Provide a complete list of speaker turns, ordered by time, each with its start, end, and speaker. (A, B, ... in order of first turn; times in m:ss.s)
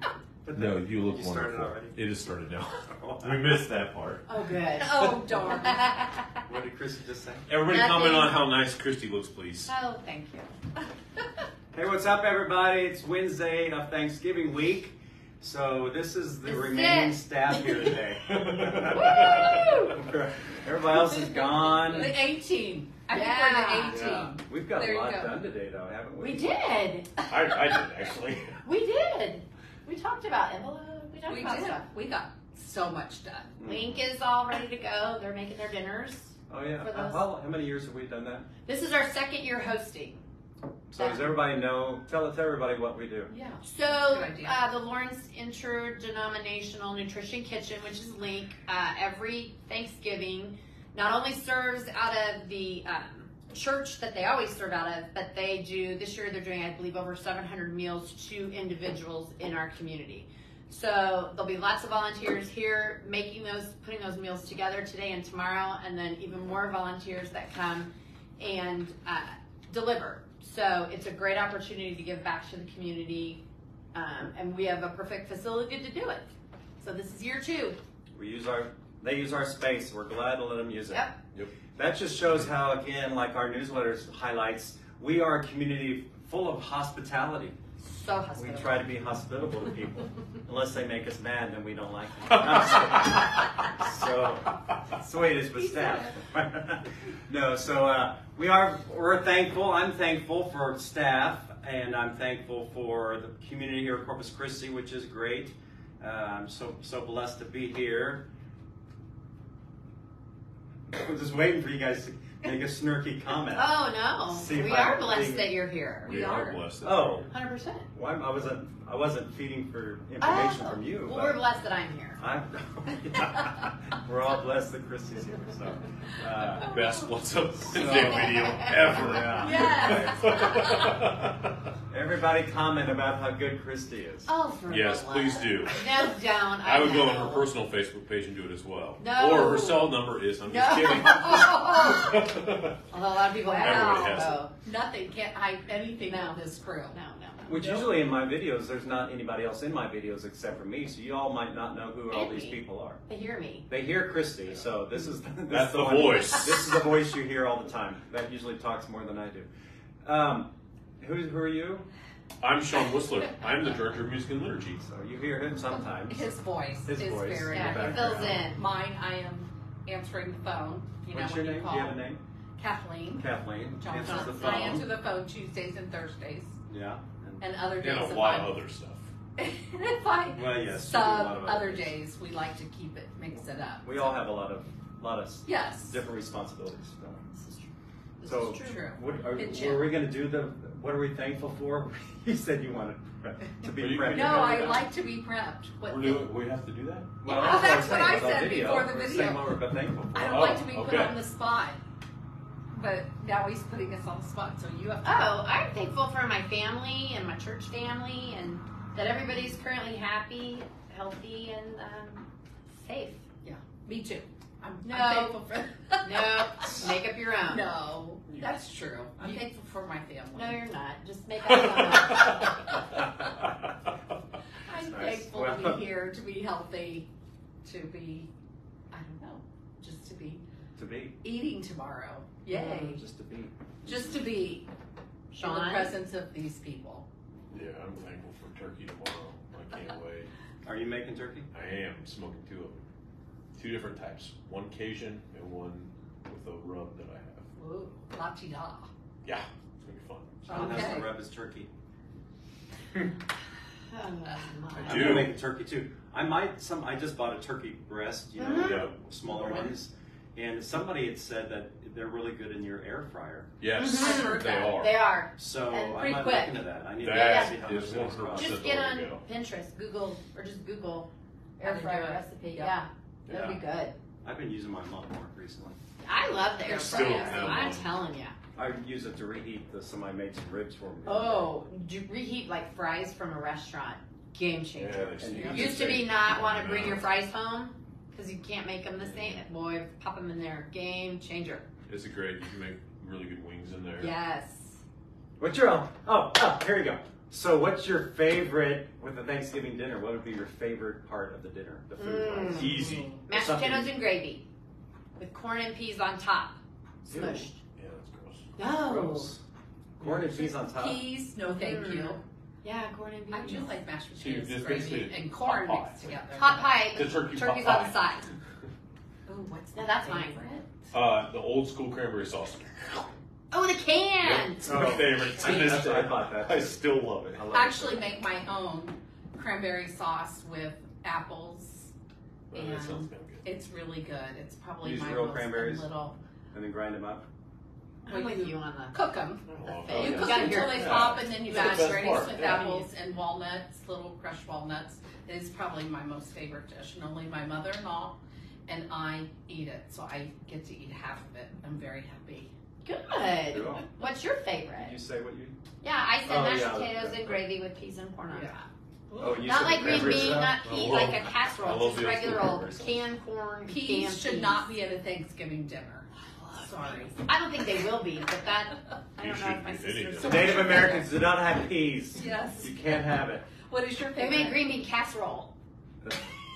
0:00.4-0:02.0 A
0:00.5-0:04.3 B
0:02.9-0:03.6 A
0:04.3-0:06.4 C
0:04.8-0:05.8 D
0:06.5-0:07.5 A
0:07.5-0:09.7 B
0:07.7-0:08.4 C
0:09.7-0:10.5 C
0:11.7-0:22.2 A
0:16.4-0:17.2 C
0:18.3-0:19.5 B
0:18.9-0:20.0 C
0:21.1-0:25.4 D
0:23.1-0:24.0 C
0:23.9-0:24.3 B
0:24.5-0:26.5 A
0:26.2-0:27.1 C
0:27.3-0:28.6 B
0:28.6-0:31.9 C
0:31.3-0:33.6 D
0:33.6-0:34.0 A
0:33.7-0:37.2 C
0:36.5-0:38.5 A
0:38.6-0:40.2 C
0:40.9-0:43.3 A
0:41.0-0:41.3 C
0:43.3-0:44.6 D
0:43.6-1:13.4 C
1:13.9-1:16.2 C
1:16.8-1:17.8 C
1:18.1-1:21.1 A
1:20.9-1:21.2 C
1:21.8-1:27.6 A
1:27.8-1:28.8 C
1:28.4-1:48.2 A
1:50.9-1:55.5 A
1:53.5-1:56.2 C
1:56.0-1:56.6 D
1:56.1-1:57.3 B
1:56.8-1:57.3 A
1:57.3-1:57.9 C
1:57.9-2:01.4 A
2:00.2-2:02.2 C
2:02.2-2:06.7 A
2:06.6-2:11.5 B
2:07.7-2:10.2 A
2:07.8-2:09.0 C
2:09.4-2:10.8 D
2:09.6-2:10.0 C
2:11.9-2:14.3 A
2:14.3-2:17.5 C
2:14.7-2:24.5 B
2:19.0-2:19.9 C
2:20.5-2:22.3 C
2:22.9-2:24.5 C
2:23.5-2:27.0 D
2:26.1-2:27.6 C
2:27.5-2:33.0 A
2:27.5-2:28.0 D
2:32.1-2:33.7 C
2:33.7-2:39.5 A
2:35.5-2:36.8 B
2:40.0-2:41.9 A
2:42.4-2:44.8 B
2:44.8-2:46.3 A
2:46.1-2:56.6 D
2:46.9-2:48.4 A
2:47.5-2:48.6 C
2:51.1-2:52.2 A
2:53.2-2:54.9 A
2:54.0-2:54.8 C
2:56.7-2:57.4 A
2:57.4-2:58.6 D
2:57.8-2:59.1 B
2:59.4-3:04.0 D
3:00.3-3:02.0 A
3:03.8-3:07.2 A
3:05.4-3:06.0 D
3:07.3-3:08.9 C
3:08.2-3:14.8 A
3:08.6-3:09.9 D
3:09.5-3:09.8 C
3:13.7-3:14.9 B
3:14.1-3:16.3 D
3:15.8-3:17.1 B
3:17.2-3:20.5 A
3:17.2-3:19.6 D
3:17.4-3:17.9 C
3:20.1-3:21.8 D
3:20.3-3:21.2 B
3:22.7-3:25.4 D
3:25.0-3:33.2 C
3:33.4-3:36.3 D
3:34.8-3:35.4 C
3:36.0-3:37.7 C
3:37.5-3:40.6 D
3:40.3-3:42.7 C
3:44.6-3:47.1 D
3:44.7-3:45.8 A
3:47.6-3:48.3 D
3:48.9-3:50.4 D
3:50.8-3:51.2 A
3:51.2-3:53.0 D
3:52.5-3:54.3 A
3:53.8-3:54.7 D
3:55.3-3:56.0 C
3:55.4-3:57.1 D
3:57.5-4:00.3 B
4:00.6-4:01.5 A
4:01.5-4:02.8 B
4:03.6-4:07.4 B
4:07.6-4:08.9 D
4:09.2-4:10.5 B
4:10.4-4:11.1 D
4:10.5-4:11.7 A
4:10.5-4:10.8 C
4:13.9-4:15.2 C
4:14.8-4:15.3 B
4:14.8-4:23.5 A
4:18.4-4:18.8 C
4:18.5-4:18.9 B
4:19.3-4:19.7 D
4:23.6-4:25.1 B
4:23.8-4:27.6 C
4:24.0-4:24.7 D
4:25.4-4:28.6 A
4:27.0-4:29.2 B
4:28.3-4:34.0 C
4:31.6-4:32.8 D
4:33.3-4:33.6 B
4:34.2-4:35.8 A
4:36.0-4:38.4 C
4:36.6-4:37.9 B
4:38.6-4:41.6 A
4:41.1-4:51.6 C
4:44.8-4:47.1 B
4:45.2-4:46.0 A
4:45.4-4:45.7 D
4:49.0-4:49.3 A
4:51.9-4:54.1 B
4:54.0-4:54.8 C
4:55.4-5:04.0 A
5:02.0-5:04.4 C
5:02.4-5:03.1 B
5:05.2-5:06.6 C
5:07.0-5:07.5 A
5:07.1-5:07.6 C
5:07.8-5:08.5 B
5:08.6-5:09.4 C
5:08.8-5:09.4 A
5:10.0-5:11.1 A
5:10.0-5:12.2 D
5:11.5-5:13.8 C
5:13.3-5:16.9 D
5:14.2-5:16.1 B
5:16.3-5:18.3 C
5:16.9-5:18.0 B
5:19.3-5:20.9 D
5:19.8-5:20.4 C
5:20.9-5:23.1 B
5:23.5-5:24.8 C
5:24.2-5:27.5 B
5:24.6-5:26.8 A
5:27.3-5:28.1 A
5:27.5-5:31.9 D
5:32.5-5:33.4 B
5:32.5-5:36.2 D
5:34.8-5:35.9 A
5:36.5-5:37.2 A
5:38.0-5:39.0 C
5:38.1-5:52.5 D
5:39.5-5:42.8 B
5:39.6-5:42.8 C
5:52.8-5:55.0 C
5:53.5-5:53.9 A
5:54.8-5:55.6 A
5:55.8-5:58.7 C
5:56.2-5:57.4 A
5:59.1-5:59.6 D
5:59.2-6:00.6 A
5:59.3-6:04.7 C
5:59.7-6:03.1 B
6:03.7-6:07.2 D
6:06.4-6:11.1 C
6:09.2-6:10.9 B
6:10.2-6:13.5 A
6:10.6-6:11.0 D
6:12.2-6:12.8 D
6:13.6-6:14.7 D
6:14.2-6:15.5 C